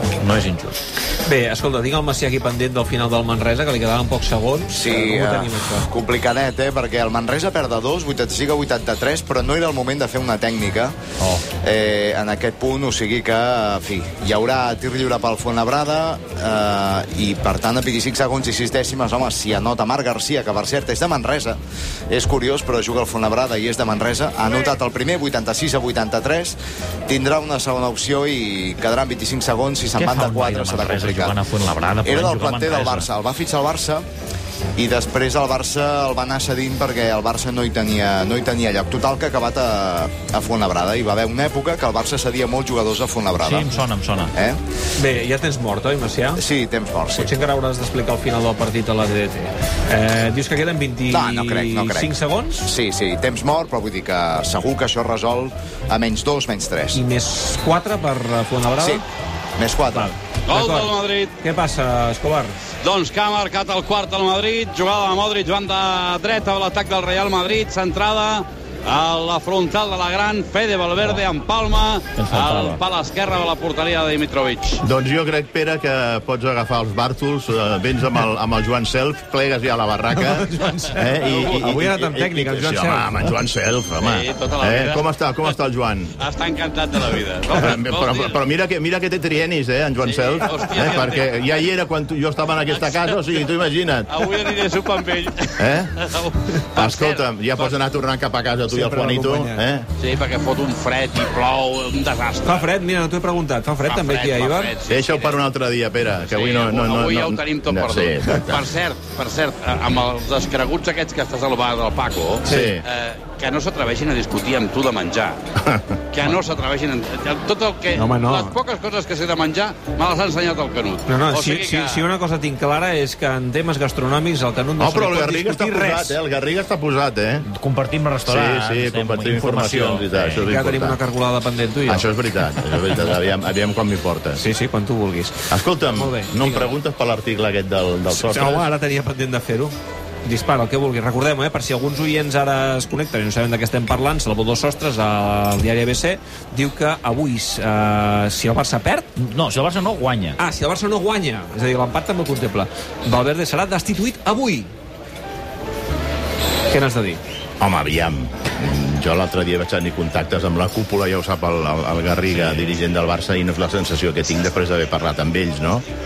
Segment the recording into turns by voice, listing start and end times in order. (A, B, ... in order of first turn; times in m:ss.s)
0:00.2-0:00.8 A
0:01.2-0:05.9 B
0:04.7-0:10.9 C
0:11.2-0:11.5 A
0:11.6-0:21.6 C
0:22.1-0:26.6 C
0:27.1-0:31.4 C
0:30.0-0:33.1 A
0:32.0-0:34.0 C
0:34.8-0:43.8 C
0:43.4-0:44.3 A
0:45.0-0:46.4 B
0:46.4-0:47.3 C
0:47.2-0:52.7 B
0:51.1-0:57.0 C
0:56.9-0:59.0 B
0:59.6-1:00.1 C
0:59.9-1:02.6 B
1:00.5-1:01.3 D
1:02.8-1:14.8 D
1:12.2-1:12.8 A
1:14.8-1:26.1 E
1:20.1-1:23.3 B
1:24.0-1:25.5 D
1:26.2-1:28.4 D
1:27.6-1:34.3 E
1:30.0-1:31.5 D
1:32.7-1:33.4 D
1:34.1-1:37.7 D
1:35.6-1:35.9 E
1:36.8-1:39.9 E
1:38.7-1:39.6 B
1:40.0-1:42.7 D
1:42.4-1:44.7 B
1:43.9-1:45.4 D
1:44.9-1:48.6 E
1:46.2-1:55.4 D
1:52.4-1:52.8 B
1:52.5-1:52.8 E
1:55.6-1:55.9 E
1:56.1-2:02.0 D
1:57.9-1:58.5 B
2:01.1-2:06.2 B
2:04.8-2:07.5 E
2:07.5-2:10.5 A
2:08.3-2:11.0 E
2:10.4-2:12.1 B
2:11.9-2:14.4 E
2:14.4-2:16.7 B
2:15.5-2:18.7 E
2:18.1-2:29.1 B
2:29.2-2:30.4 A
2:30.4-2:34.7 B
2:36.7-2:37.2 B
2:37.6-2:45.8 E